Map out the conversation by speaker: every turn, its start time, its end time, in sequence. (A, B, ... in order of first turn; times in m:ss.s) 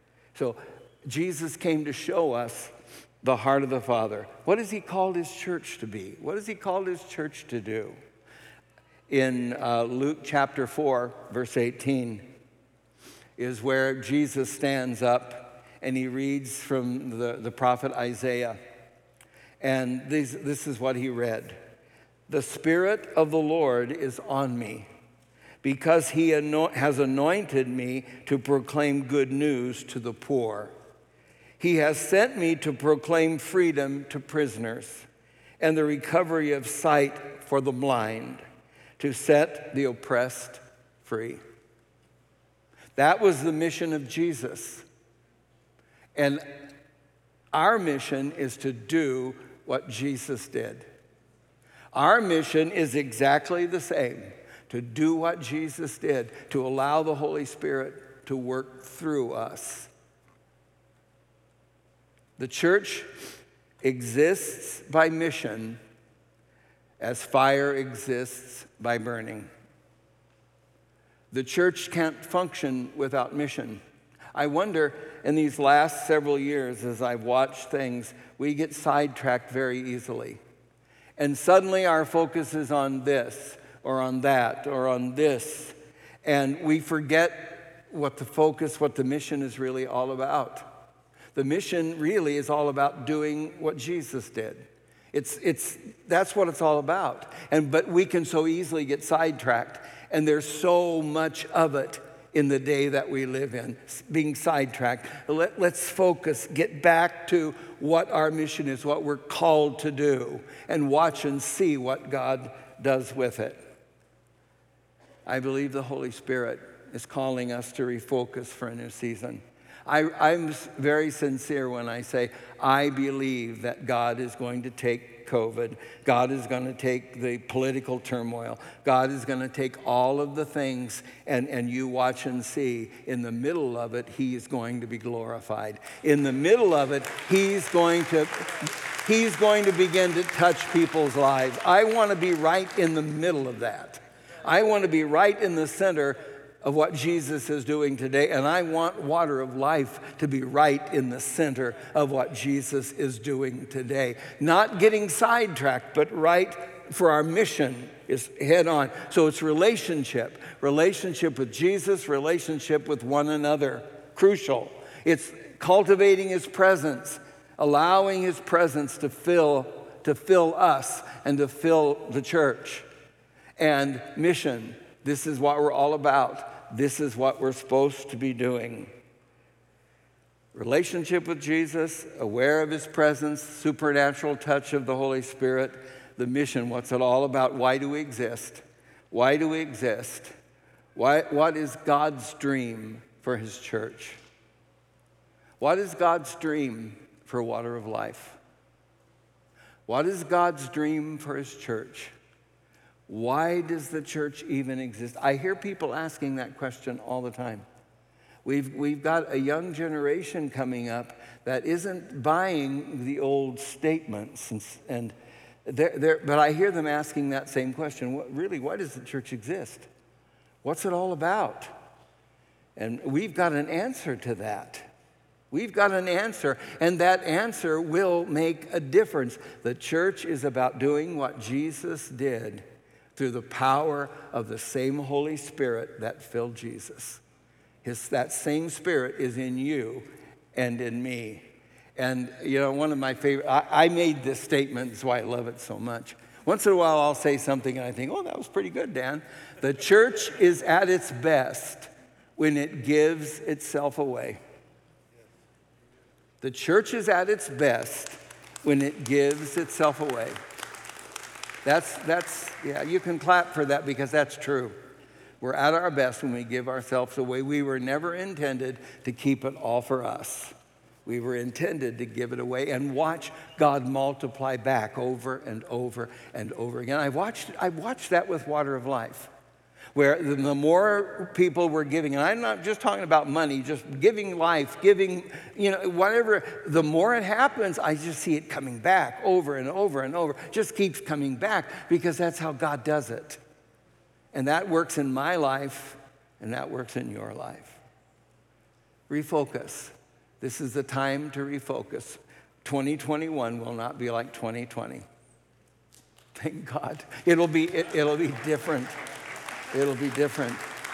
0:00.3-0:08.0 A
0:09.1-0:12.2 A
0:13.4-0:18.6 A
0:19.6-0:21.6 A
0:22.3-0:24.9 A
0:25.6-0:30.7 A
0:31.6-0:35.0 A
0:35.6-0:38.4 A
0:39.0-0:41.4 A
0:43.0-0:44.8 A
0:46.2-0:46.5 A
0:47.5-0:50.8 A
0:51.9-0:59.9 A
1:02.4-1:03.1 A
1:03.8-1:05.8 A
1:07.0-1:09.5 A
1:11.3-1:13.8 A
1:14.3-1:20.4 A
1:21.2-1:30.7 A
1:31.3-1:53.6 A
1:55.2-2:52.8 A
2:53.6-2:58.9 A
3:00.5-3:10.3 A
3:10.9-3:14.2 A
3:15.6-3:18.4 A
3:19.9-3:22.1 A
3:23.1-3:27.6 A
3:28.4-3:35.1 A
3:35.6-3:39.9 A
3:40.6-3:41.7 A
3:42.8-3:44.8 A
3:45.5-3:52.6 A
3:53.1-3:57.2 A
3:57.8-4:01.4 A
4:02.0-4:14.4 A
4:16.4-4:20.4 A
4:21.6-4:24.8 A
4:25.4-4:30.5 A
4:31.0-4:39.3 A
4:39.9-4:53.4 A
4:54.3-4:57.8 A
4:59.1-5:05.0 A
5:06.3-5:08.9 A
5:09.7-5:10.6 A